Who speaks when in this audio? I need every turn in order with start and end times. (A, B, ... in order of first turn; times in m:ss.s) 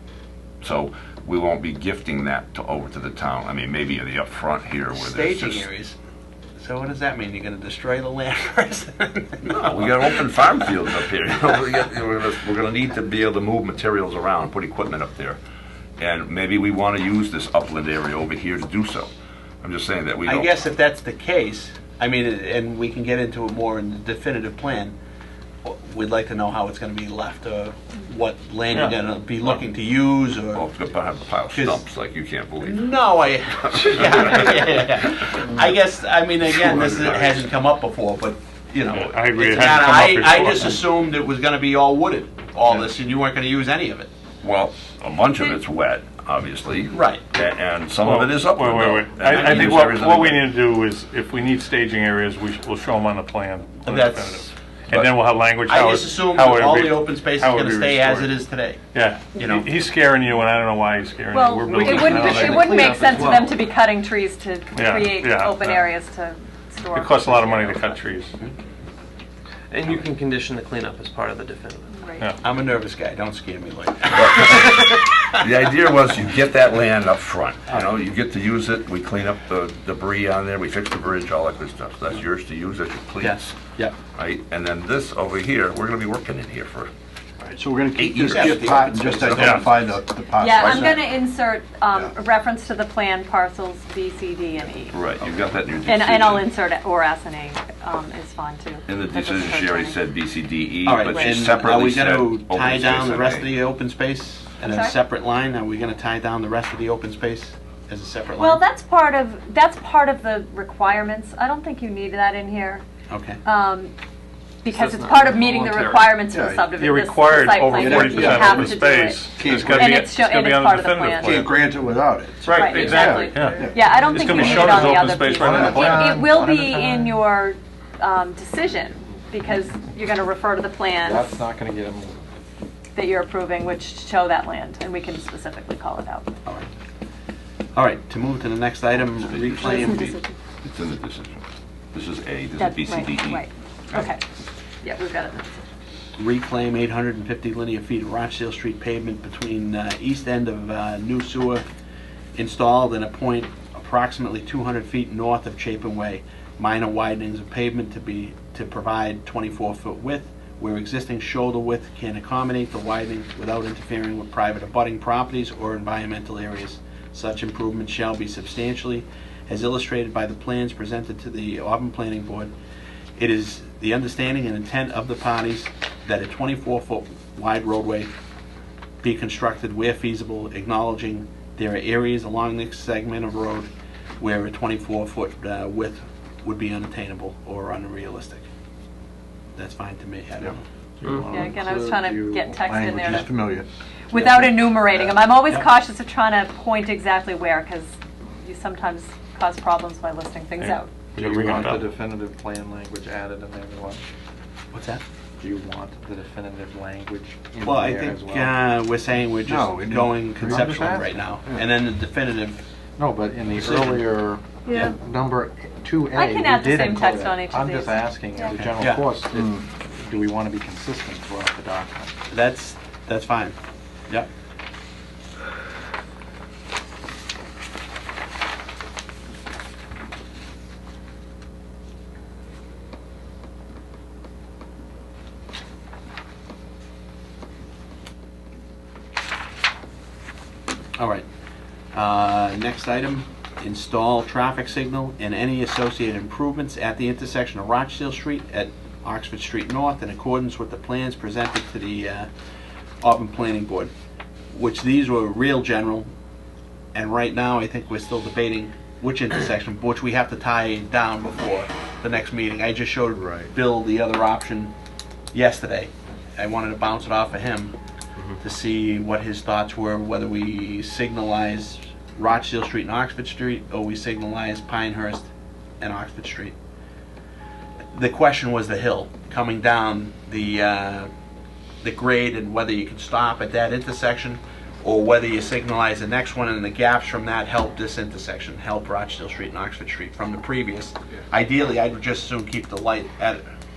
0:00.6-0:05.7 A
0:04.9-0:06.0 B
0:06.6-0:10.2 B
0:09.4-0:15.4 A
0:16.0-0:19.1 A
0:19.6-0:20.6 A
0:20.2-0:24.9 B
0:25.6-0:30.6 B
0:28.7-0:29.0 C
0:30.5-0:33.0 A
0:31.5-0:31.8 B
0:32.6-0:44.1 B
0:33.5-0:35.1 A
0:36.5-0:37.4 A
0:38.9-0:40.8 C
0:44.4-0:50.5 A
0:46.9-0:47.2 B
0:48.0-0:58.3 C
0:53.8-0:55.1 B
0:55.6-0:58.8 B
0:58.9-1:02.8 C
0:59.3-0:59.8 B
1:01.3-1:07.8 D
1:01.8-1:03.6 E
1:04.7-1:05.9 C
1:06.9-1:08.3 C
1:09.7-1:11.9 E
1:11.9-1:12.2 D
1:12.4-1:15.2 B
1:15.4-1:23.4 A
1:23.2-1:23.9 B
1:24.2-1:26.9 A
1:27.5-1:31.0 F
1:27.9-1:29.8 A
1:28.3-1:29.4 B
1:29.4-1:29.6 C
1:30.4-1:35.0 D
1:30.5-1:31.0 A
1:34.9-1:36.5 A
1:35.8-1:40.0 D
1:38.9-1:43.5 A
1:40.8-1:48.6 B
1:41.0-1:41.4 D
1:44.6-1:45.0 D
1:48.4-1:52.8 D
1:53.1-1:53.4 B
1:53.4-1:53.9 D
1:54.6-2:01.5 D
1:54.7-1:56.2 E
1:56.3-1:56.8 F
1:56.7-2:01.5 C
1:57.6-2:00.0 F
2:01.2-2:03.9 F
2:02.4-2:03.7 E
2:02.4-2:11.3 D
2:02.7-2:06.1 C
2:05.3-2:07.2 G
2:05.4-2:05.9 F
2:11.0-2:12.2 G
2:12.9-2:16.3 D
2:17.7-2:20.1 B
2:19.1-2:21.4 A
2:19.6-2:20.3 D
2:21.9-2:24.1 A
2:22.6-2:24.2 D
2:24.8-2:25.6 D
2:26.2-2:31.6 B
2:32.4-2:52.5 B
2:53.2-2:58.1 B
2:59.0-3:08.4 B
3:09.6-3:10.6 B
3:11.0-3:12.5 G
3:11.3-3:13.3 D
3:12.6-3:13.7 F
3:14.1-3:20.9 D
3:14.1-3:15.7 B
3:20.6-3:21.9 C
3:21.2-3:24.0 G
3:24.7-3:25.0 B
3:25.4-3:28.6 G
3:27.6-3:32.6 B
3:29.4-3:31.6 F
3:30.4-3:31.2 G
3:33.0-3:42.1 G
3:33.5-3:34.0 B
3:34.7-3:34.9 D
3:36.1-3:38.5 D
3:38.5-3:39.1 B
3:39.3-3:39.6 F
3:42.3-3:43.5 B
4:01.0-4:01.2 B
4:01.9-4:12.3 B
4:13.0-4:13.9 B
4:14.5-4:16.1 B
4:16.9-4:24.7 B
4:23.1-4:23.5 F
4:25.3-4:27.8 B
4:28.4-4:35.3 B
4:35.8-4:36.5 B
4:37.9-4:41.1 B
4:41.8-4:53.4 B